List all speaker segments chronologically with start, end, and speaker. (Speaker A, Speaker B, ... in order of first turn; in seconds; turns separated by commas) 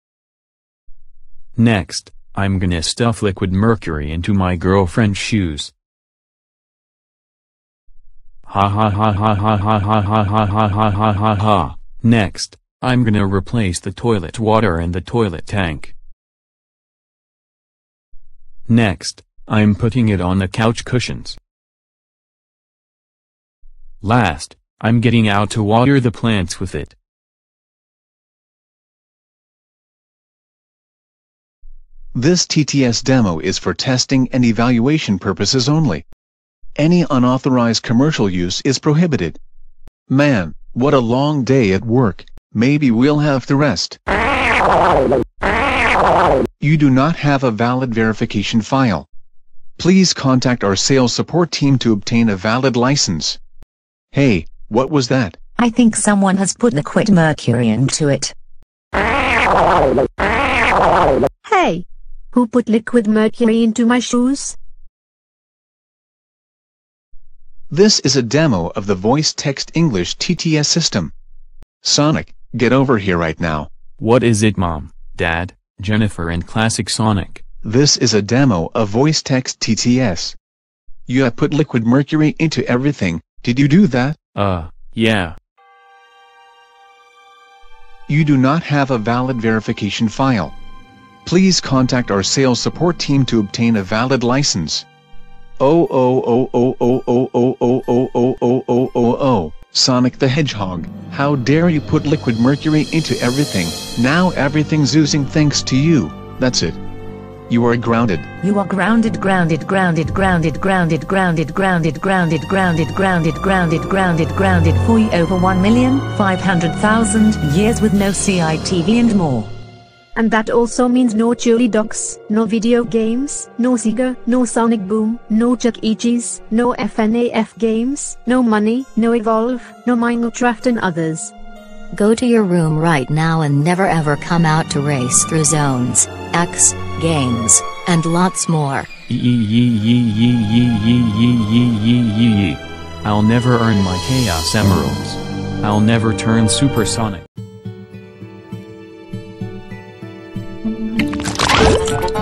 Speaker A: 1.6-5.7, Speaker A: 8.5-15.9, Speaker A: 18.7-21.4, Speaker A: 24.0-26.9, Speaker B: 32.1-36.0, Speaker B: 36.8-39.4, Speaker B: 40.1-44.0, Speaker B: 46.6-49.1, Speaker B: 49.8-53.4, Speaker B: 54.1-55.4, Speaker C: 55.6-58.3, Speaker D: 61.4-64.6, Speaker B: 67.7-71.1, Speaker B: 71.8-73.7, Speaker A: 74.0-77.4, Speaker B: 77.6-80.4, Speaker B: 81.1-84.2, Speaker A: 84.3-85.3, Speaker B: 88.1-90.5, Speaker B: 91.2-94.8, Speaker B: 95.6-106.8, Speaker B: 107.5-108.3, Speaker C: 108.4-119.5, Speaker D: 120.1-131.3, Speaker E: 132.0-138.6, Speaker A: 139.1-147.2